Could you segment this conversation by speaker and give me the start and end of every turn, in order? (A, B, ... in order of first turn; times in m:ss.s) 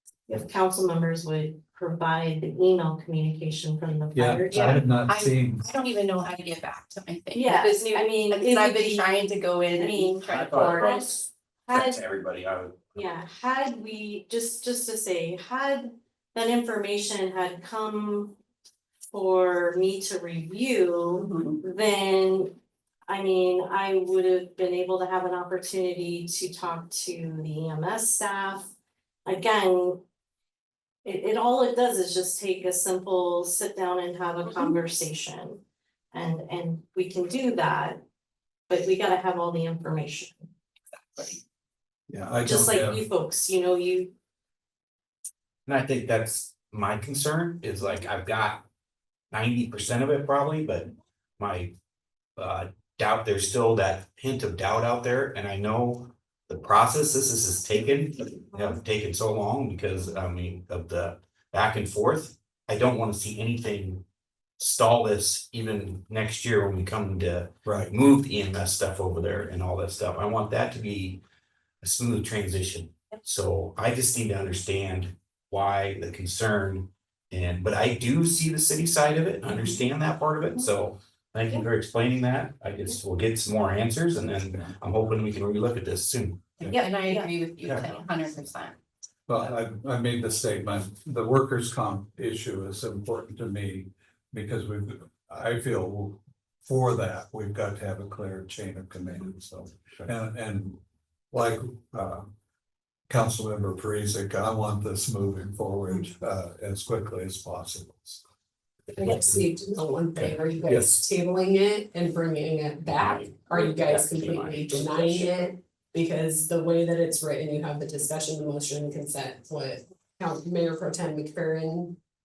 0:00.3-0:04.8 A
0:04.2-0:05.6 B
0:04.5-0:10.9 C
0:07.3-0:12.0 A
0:10.3-0:13.1 D
0:13.0-0:18.4 A
0:19.1-0:22.5 A
0:21.2-0:21.6 C
0:23.1-0:28.7 A
0:29.2-0:30.0 A
0:31.0-0:38.0 A
0:38.7-0:40.5 A
0:41.2-0:41.4 C
0:42.1-0:43.0 B
0:42.4-0:44.1 A
0:45.7-0:48.7 D
0:49.3-0:51.7 D
0:52.4-1:04.0 D
1:04.6-1:11.2 D
1:07.7-1:07.9 B
1:11.8-1:26.7 D
1:26.6-1:28.8 C
1:27.6-1:27.9 D
1:29.3-1:40.8 B
1:41.3-1:42.3 B
1:43.1-1:48.2 B
1:48.9-2:02.0 E
1:50.2-1:51.0 B
1:53.0-1:55.3 D